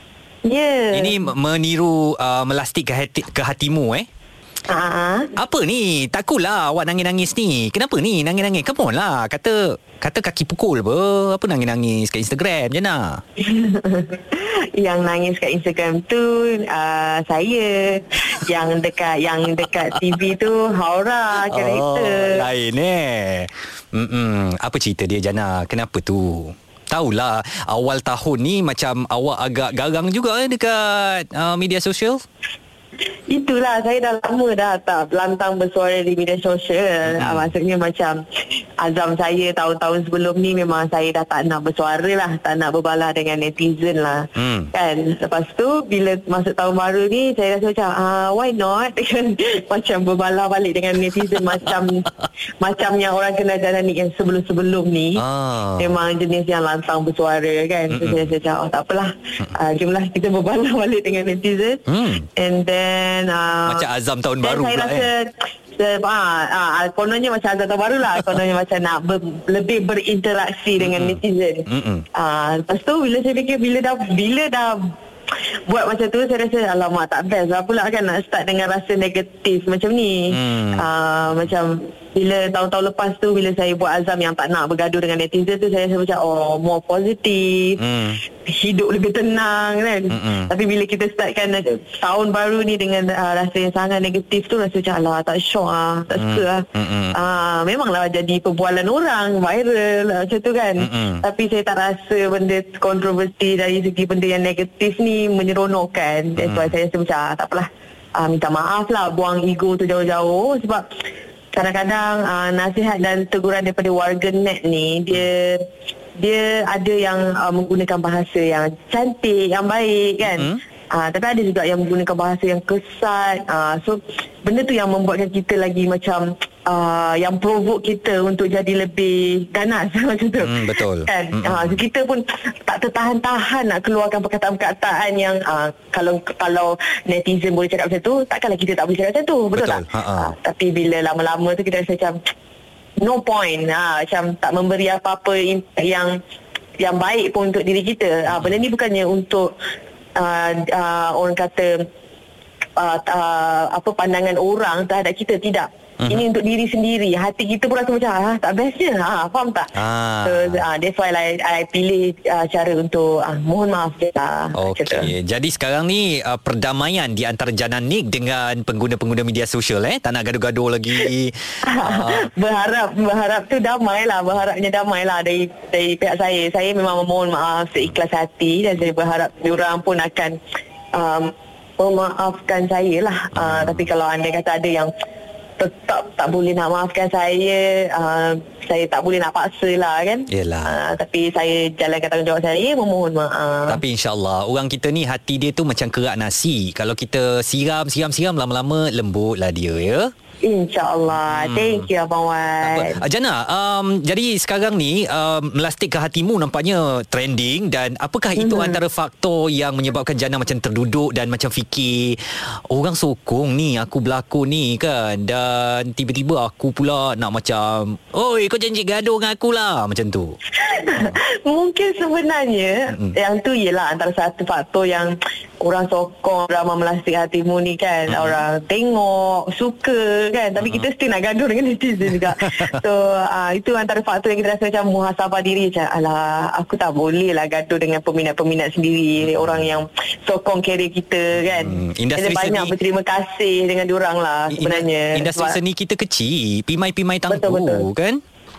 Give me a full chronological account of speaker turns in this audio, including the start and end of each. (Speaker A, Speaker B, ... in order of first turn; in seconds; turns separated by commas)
Speaker A: 0.4-1.1, Speaker B: 0.9-4.1, Speaker A: 4.7-5.3, Speaker B: 5.3-13.2, Speaker A: 13.4-22.5, Speaker B: 21.4-32.2, Speaker A: 33.3-38.2, Speaker B: 37.1-37.5, Speaker A: 38.8-55.2, Speaker B: 44.4-44.7, Speaker B: 55.2-56.0, Speaker A: 55.8-61.8, Speaker B: 57.9-58.2, Speaker B: 61.9-62.2, Speaker A: 62.4-63.8, Speaker B: 63.6-65.1, Speaker A: 64.4-74.8, Speaker B: 70.8-72.0, Speaker A: 75.7-87.8, Speaker B: 80.3-80.9, Speaker B: 87.8-88.2, Speaker A: 88.5-110.8, Speaker B: 90.1-90.5, Speaker B: 96.2-97.2, Speaker B: 100.8-101.2, Speaker B: 106.4-106.8, Speaker A: 111.5-115.7, Speaker A: 116.2-142.2, Speaker B: 120.3-120.6, Speaker B: 130.4-131.8, Speaker B: 139.6-140.3, Speaker A: 143.0-146.2, Speaker A: 146.8-149.5, Speaker A: 150.2-151.8, Speaker A: 152.8-165.1, Speaker B: 159.7-160.6, Speaker B: 164.5-172.3, Speaker A: 171.6-180.4, Speaker A: 180.9-184.9, Speaker B: 183.3-183.8, Speaker A: 185.6-193.8, Speaker B: 190.3-190.8, Speaker B: 193.7-200.1, Speaker A: 200.4-203.0, Speaker B: 201.2-201.9, Speaker B: 202.6-220.3, Speaker A: 208.4-208.8, Speaker A: 220.6-245.6, Speaker B: 228.1-228.4, Speaker B: 232.4-232.8, Speaker B: 239.3-239.6, Speaker B: 241.4-242.8, Speaker B: 244.5-248.2, Speaker A: 247.3-247.9